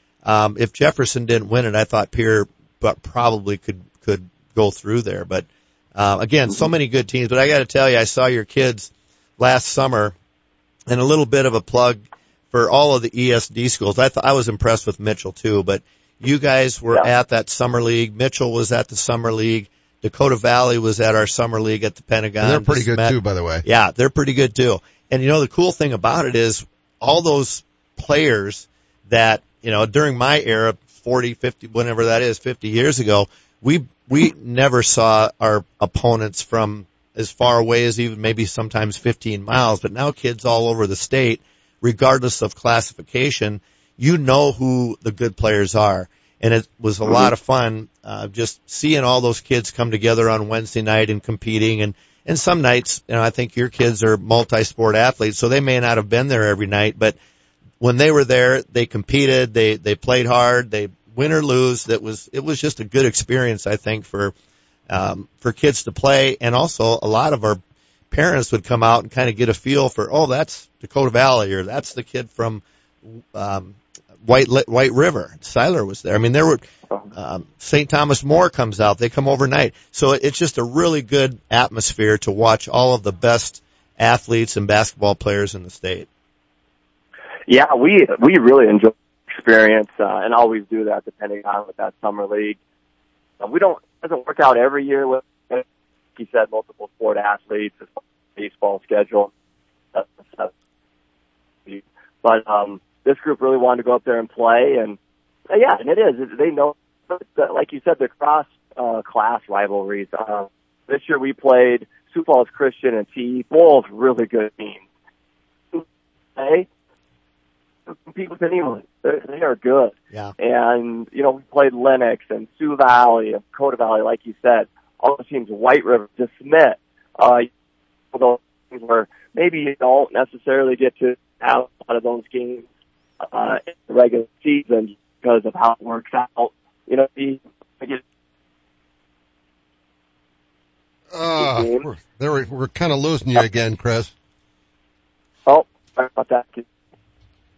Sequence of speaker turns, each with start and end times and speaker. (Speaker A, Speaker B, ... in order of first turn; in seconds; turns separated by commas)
Speaker A: 0.2-10.1, Speaker A: 10.9-57.2, Speaker B: 22.4-23.6, Speaker A: 57.8-64.3, Speaker A: 64.9-86.1, Speaker C: 87.5-92.6, Speaker C: 93.4-95.6, Speaker C: 96.2-99.3, Speaker C: 99.9-100.5, Speaker C: 101.7-105.0, Speaker C: 105.5-114.8, Speaker C: 116.3-116.7, Speaker C: 117.9-127.5, Speaker C: 128.1-132.7, Speaker C: 133.3-138.0, Speaker B: 141.1-144.1, Speaker C: 141.4-141.8, Speaker C: 145.4-146.6